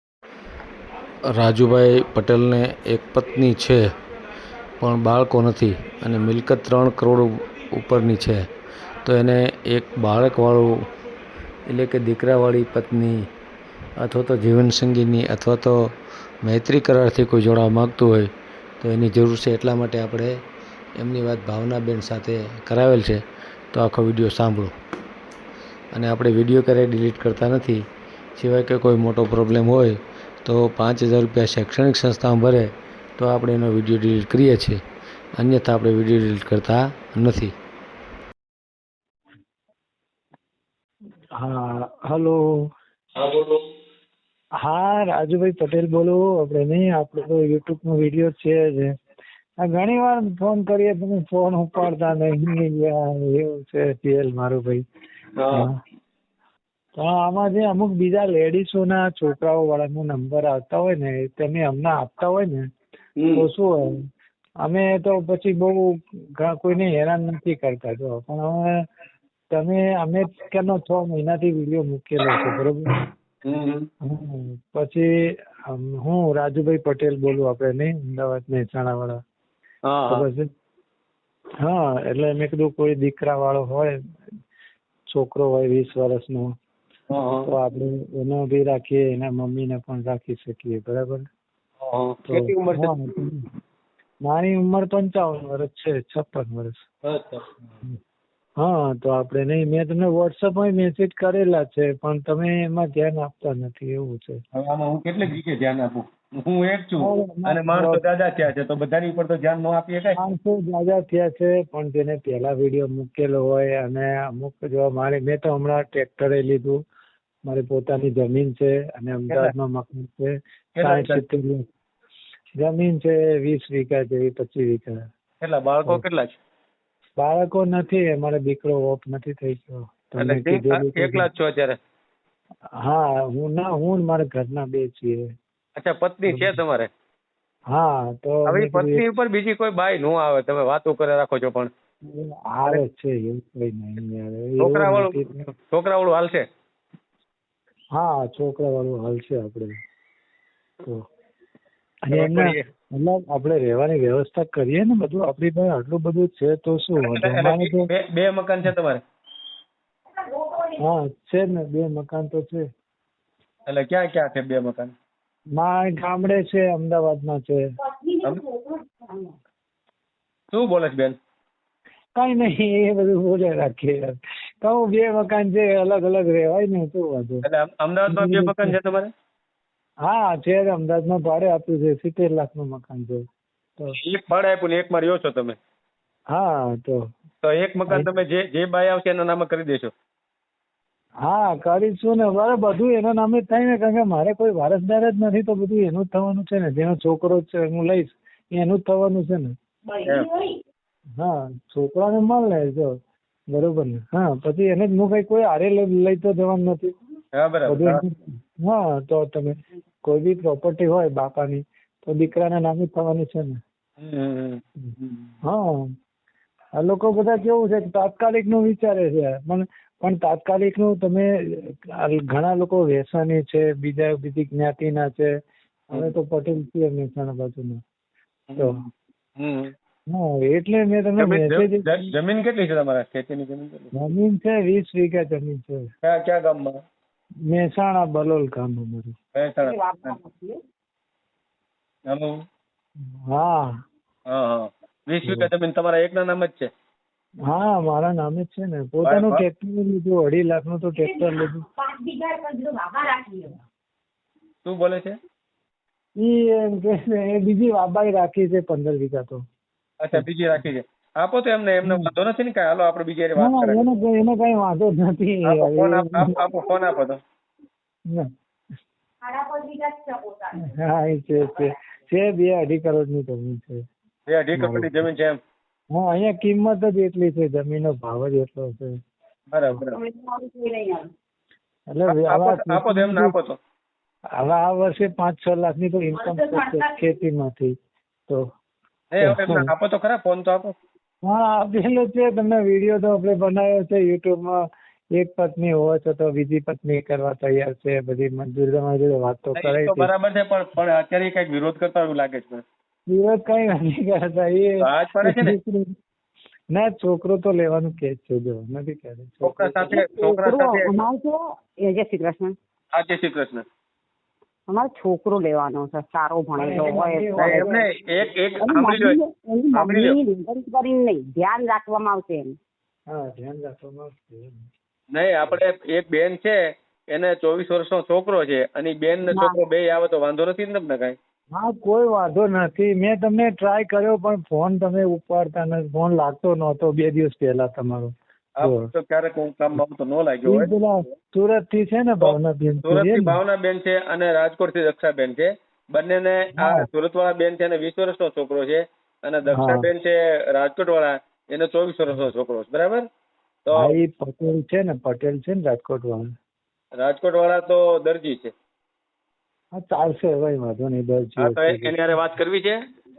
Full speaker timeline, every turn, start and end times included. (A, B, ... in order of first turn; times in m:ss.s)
0:01.3-0:03.9 A
0:04.8-0:08.5 A
0:09.0-0:10.9 A
0:11.7-0:13.3 A
0:14.0-0:20.4 A
0:21.0-0:24.7 A
0:25.9-0:27.9 A
0:28.4-0:34.8 A
0:35.4-0:37.5 A
0:41.4-0:42.4 B
0:43.2-0:43.6 C
0:44.6-0:48.9 B
0:49.6-0:54.8 B
0:55.4-0:55.6 C
0:55.5-0:55.8 B
0:57.0-1:02.6 B
1:03.2-1:03.4 C
1:03.4-1:04.0 B
1:04.6-1:08.8 B
1:09.5-1:12.9 B
1:13.5-1:13.9 C
1:14.0-1:15.1 B
1:15.7-1:19.2 B
1:19.9-1:20.3 C
1:20.1-1:20.5 B
1:21.6-1:24.0 B
1:25.1-1:26.5 B
1:27.1-1:27.5 C
1:27.4-1:31.2 B
1:31.8-1:33.1 C
1:32.3-1:33.5 B
1:34.2-1:36.8 B
1:37.1-1:37.5 C
1:38.6-1:44.4 B
1:44.6-1:50.2 C
1:47.0-1:48.0 B
1:50.2-1:56.8 B
1:57.5-2:01.6 B
2:00.8-2:01.2 C
2:02.6-2:05.0 B
2:05.4-2:06.4 C
2:07.2-2:11.3 B
2:10.2-2:11.8 C
2:12.8-2:15.3 B
2:15.8-2:16.9 C
2:16.3-2:16.6 B
2:17.7-2:19.0 B
2:18.5-2:21.7 C
2:22.0-2:25.4 B
2:24.6-2:26.4 C
2:28.0-2:29.7 B
2:32.0-2:37.9 B
2:32.1-2:32.6 C
2:37.0-2:39.0 C
2:40.2-2:40.8 D
2:40.8-2:42.6 B
2:43.7-2:44.9 C
2:45.6-2:47.6 B
2:47.8-2:49.3 D
2:50.5-2:51.2 C
2:52.2-2:57.4 B
2:57.4-2:59.1 C
2:58.1-2:58.7 B
3:00.0-3:03.2 B
3:04.0-3:05.6 C
3:06.3-3:07.0 B
3:07.4-3:09.9 C
3:11.2-3:19.5 B
3:20.0-3:20.3 C
3:21.2-3:23.0 B
3:23.5-3:27.0 B
3:27.4-3:28.0 C
3:27.7-3:33.6 B
3:34.0-3:35.4 C
3:35.4-3:35.9 B
3:36.8-3:45.3 B
3:45.9-3:47.8 B
3:48.5-3:48.8 C
3:48.6-3:48.8 B
3:49.4-3:49.7 C
3:50.1-3:51.9 B
3:51.2-3:53.9 C
3:53.9-3:55.8 B
3:56.0-3:56.8 C
3:57.5-3:59.1 B
3:59.4-4:00.2 C
3:59.6-4:00.6 D
4:02.1-4:02.4 C
4:03.1-4:03.7 B
4:04.3-4:06.7 C
4:05.2-4:05.5 B
4:07.5-4:11.6 B
4:09.1-4:09.4 C
4:11.1-4:13.6 D
4:14.6-4:15.2 C
4:16.2-4:19.4 B
4:20.0-4:23.8 C
4:21.8-4:22.1 B
4:23.4-4:26.4 B
4:25.5-4:27.2 C
4:29.2-4:30.8 D
4:30.6-4:33.8 B
4:34.3-4:35.4 C
4:34.6-4:35.0 B
4:35.9-4:39.0 B
4:39.5-4:40.0 C
4:39.9-4:41.1 D
4:41.9-4:43.3 B
4:42.1-4:43.6 C
4:44.4-4:47.7 B
4:46.2-4:47.1 D
4:49.1-4:50.8 C
4:49.2-4:49.7 B
4:51.2-5:00.1 B
4:59.6-5:02.6 C
5:03.1-5:05.9 B
5:04.8-5:05.6 C
5:06.7-5:10.0 B
5:09.4-5:10.9 C
5:10.0-5:12.6 D
5:12.9-5:13.6 C
5:14.7-5:17.7 D
5:16.6-5:18.3 B
5:17.4-5:19.2 C
5:18.6-5:22.6 D
5:19.7-5:20.2 C
5:23.1-5:24.7 B
5:25.1-5:26.6 C
5:27.1-5:31.2 C
5:29.3-5:29.6 D
5:31.5-5:38.9 B
5:38.6-5:40.7 C
5:40.5-5:43.4 B
5:42.2-5:53.1 C
5:46.6-5:46.9 B
5:49.5-5:49.9 B
5:53.7-5:54.0 C
5:53.7-5:56.3 B
5:57.0-5:58.5 C
5:59.8-6:02.2 B
6:01.4-6:02.8 C